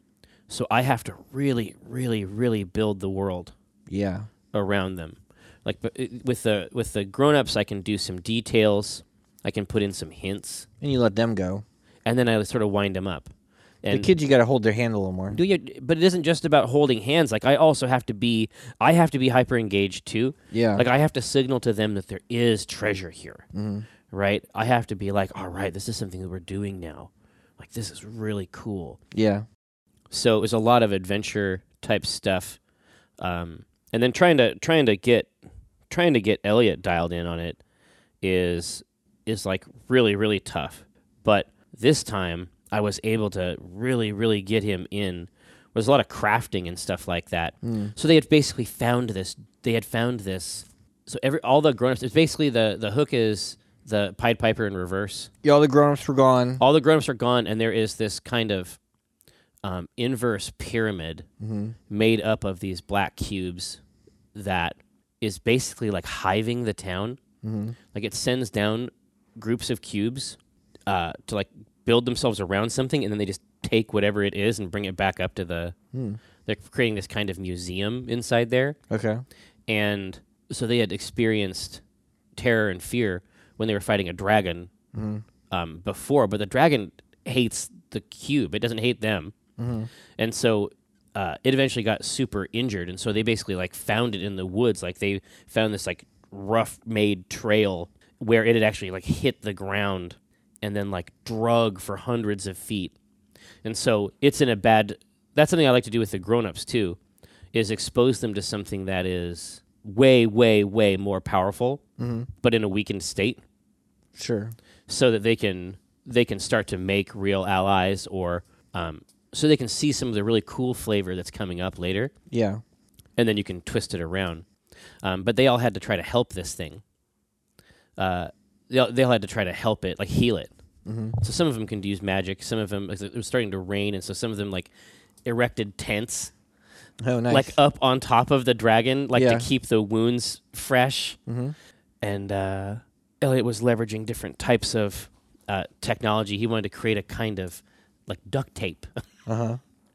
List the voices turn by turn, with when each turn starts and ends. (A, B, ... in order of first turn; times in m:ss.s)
0:00.5-0:03.5 A
0:03.9-0:04.3 B
0:04.5-0:10.6 A
0:10.8-0:11.6 B
0:12.0-0:13.3 A
0:13.8-0:14.1 A
0:13.9-0:15.4 B
0:15.3-0:23.4 A
0:20.5-0:20.8 B
0:23.5-0:23.8 B
0:24.1-0:29.0 A
0:29.1-0:29.4 B
0:30.1-0:32.6 A
0:33.2-0:35.3 A
0:35.9-0:37.6 A
0:38.2-0:55.3 A
0:47.6-0:47.9 B
0:55.4-0:56.6 B
0:56.6-0:58.8 A
0:59.6-1:01.2 A
1:01.4-1:01.7 B
1:01.9-1:03.8 A
1:04.3-1:07.2 A
1:07.4-1:07.8 B
1:07.9-1:15.7 A
1:15.9-1:16.2 B
1:16.4-1:18.8 A
1:18.9-1:19.2 B
1:19.7-1:21.8 A
1:22.4-1:24.7 A
1:24.9-1:25.2 B
1:25.5-1:29.3 A
1:29.6-1:29.9 B
1:30.2-1:42.9 A
1:43.6-1:47.0 A
1:47.5-1:51.8 A
1:52.0-1:52.3 B
1:52.4-1:53.4 A
1:54.2-1:54.5 B
1:54.9-2:02.1 A
2:02.3-2:02.6 B
2:03.2-2:04.4 A
2:05.0-2:06.8 A
2:08.0-2:10.5 A
2:10.8-2:11.2 B
2:11.2-2:14.7 A
2:15.2-2:16.3 A
2:17.0-2:17.6 B
2:17.3-2:21.2 A
2:19.1-2:19.4 B
2:21.3-2:21.5 B
2:22.0-2:28.9 A
2:29.3-2:29.6 B